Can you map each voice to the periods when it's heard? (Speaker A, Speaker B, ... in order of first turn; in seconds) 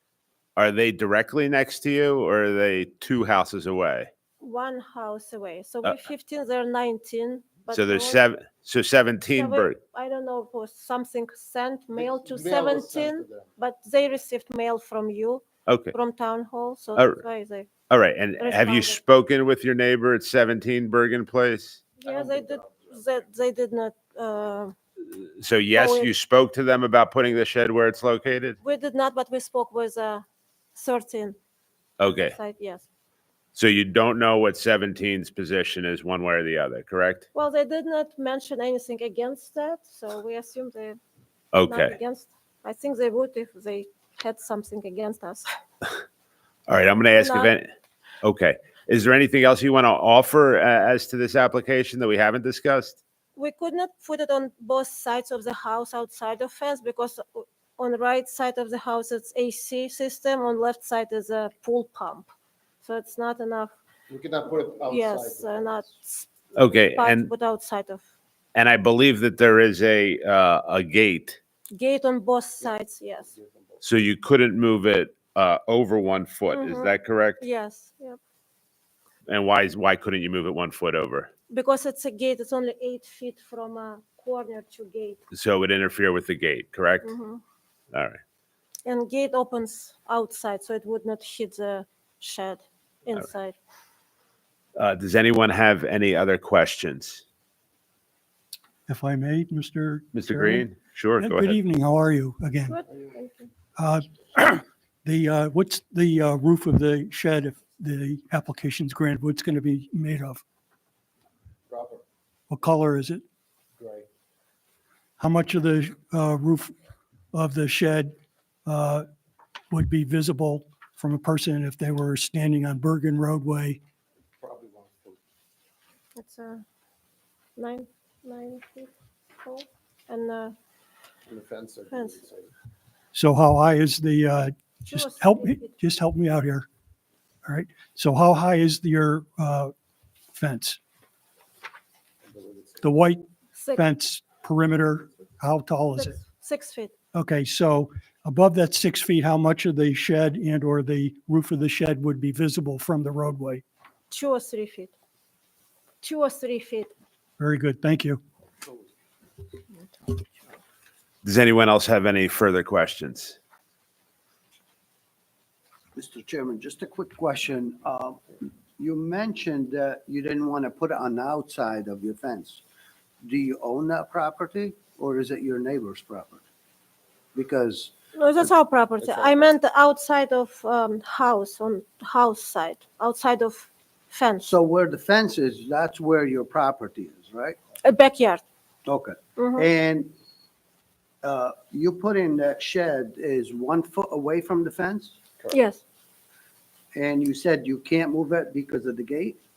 Speaker A: 0.6-4.1, 7.7-9.8, 15.7-15.9, 17.9-21.8, 25.4-28.6, 32.0-32.4, 33.5-37.2, 41.5-42.0, 46.7-47.7, 48.2-53.0, 66.5-67.3, 68.5-71.4, 73.8-77.4, 79.3-81.3, 85.3-87.1, 87.9-88.2, 94.8-97.2, 100.1-101.6, 161.2-163.4
Speaker B: 4.4-8.2, 9.3-17.7, 18.4-19.0, 22.0-24.7, 25.7-26.1, 28.6-31.4, 32.0-32.9, 37.3-41.0, 41.6-45.5, 47.1-47.5, 53.4-62.3, 62.8-63.7, 64.8-68.0, 71.7-73.3, 76.5-78.2, 81.5-85.2, 87.0-87.4, 88.8-93.5, 102.7-103.5, 126.2-126.6, 127.6-128.9, 129.4-130.5, 134.8-135.7, 143.6-143.8, 145.9-146.9, 154.1-154.9, 156.0-156.9, 178.1-184.5, 187.8-188.4, 189.4-189.7, 195.5-195.8
Speaker C: 11.9-13.5, 22.0-22.9, 64.1-65.8, 73.3-73.8, 111.7-112.0, 113.8-114.1, 124.4-125.2, 131.3-132.5, 142.2-142.8
Speaker D: 98.9-102.8, 103.8-110.4, 112.5-113.2, 115.2-116.7, 117.3-118.1, 118.7-119.0, 119.7-123.8, 133.1-136.7, 137.4-139.7, 140.3-140.8, 142.8-146.1, 147.1-153.6, 157.4-158.2
Speaker E: 165.9-172.6, 173.2-176.4, 177.3-177.9, 184.4-187.6, 188.8-190.1, 191.2-195.2, 196.9-199.4